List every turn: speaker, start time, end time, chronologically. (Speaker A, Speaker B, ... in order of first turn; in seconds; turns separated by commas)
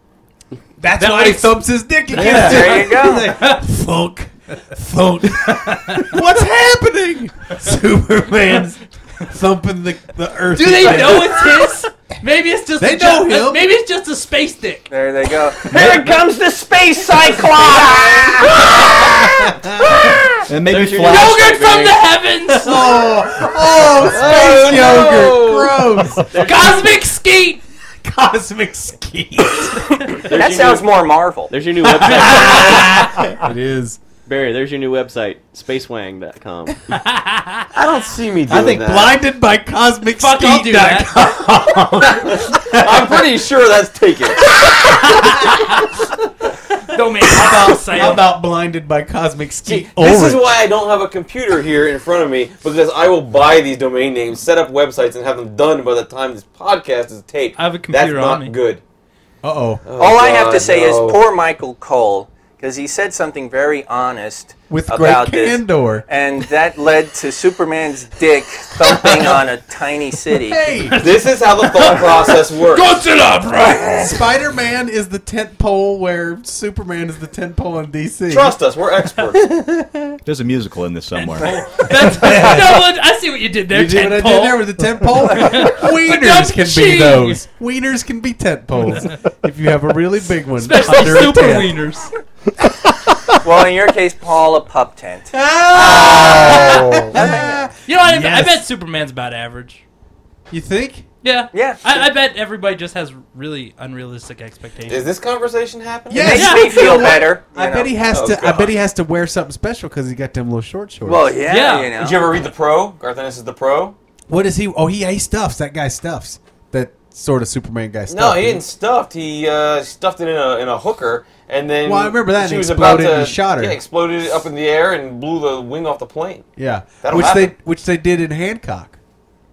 Speaker A: 0.8-11.8, Speaker B: 0.9-1.6, Speaker B: 2.1-3.6, Speaker C: 2.1-2.6, Speaker D: 2.2-3.4, Speaker B: 5.2-6.2, Speaker B: 10.5-14.9, Speaker A: 12.8-13.7, Speaker D: 14.9-19.2, Speaker E: 15.7-16.2, Speaker C: 15.7-16.1, Speaker E: 16.9-19.1, Speaker A: 18.8-20.1, Speaker C: 20.5-21.4, Speaker F: 20.6-22.1, Speaker B: 21.0-23.1, Speaker A: 22.5-26.4, Speaker E: 24.0-25.8, Speaker F: 26.3-27.0, Speaker B: 26.3-27.6, Speaker A: 28.0-30.1, Speaker F: 30.2-30.9, Speaker D: 30.2-31.5, Speaker F: 31.5-33.0, Speaker A: 31.8-34.0, Speaker B: 32.2-32.9, Speaker F: 34.2-36.8, Speaker B: 37.1-37.6, Speaker E: 37.7-39.2, Speaker C: 38.5-38.8, Speaker A: 38.6-43.0, Speaker B: 40.1-41.3, Speaker E: 42.2-44.5, Speaker B: 45.1-45.8, Speaker B: 46.9-48.3, Speaker A: 47.3-50.6, Speaker E: 49.6-58.8, Speaker B: 57.5-58.5, Speaker A: 59.4-59.9, Speaker E: 59.8-61.2, Speaker D: 60.0-70.7, Speaker A: 64.7-66.1, Speaker A: 70.3-71.1, Speaker E: 70.9-73.0, Speaker B: 72.7-74.3, Speaker A: 73.7-78.5, Speaker E: 78.3-79.4, Speaker A: 79.5-80.1, Speaker C: 80.2-81.5, Speaker B: 81.1-87.4, Speaker A: 81.9-82.9, Speaker A: 83.7-91.8, Speaker B: 88.8-89.1, Speaker B: 90.5-92.1, Speaker D: 93.4-97.7, Speaker A: 95.3-98.6, Speaker B: 97.8-99.8, Speaker A: 100.5-101.1, Speaker B: 101.2-105.1, Speaker D: 101.5-102.1, Speaker E: 104.9-106.5, Speaker A: 106.1-111.4, Speaker D: 106.2-108.0, Speaker B: 106.2-107.0, Speaker E: 108.1-108.7, Speaker D: 111.0-112.3, Speaker B: 111.4-112.0, Speaker E: 111.9-114.0, Speaker A: 114.3-118.6, Speaker E: 118.1-126.5, Speaker A: 121.8-123.8, Speaker A: 126.6-128.9, Speaker E: 127.0-127.5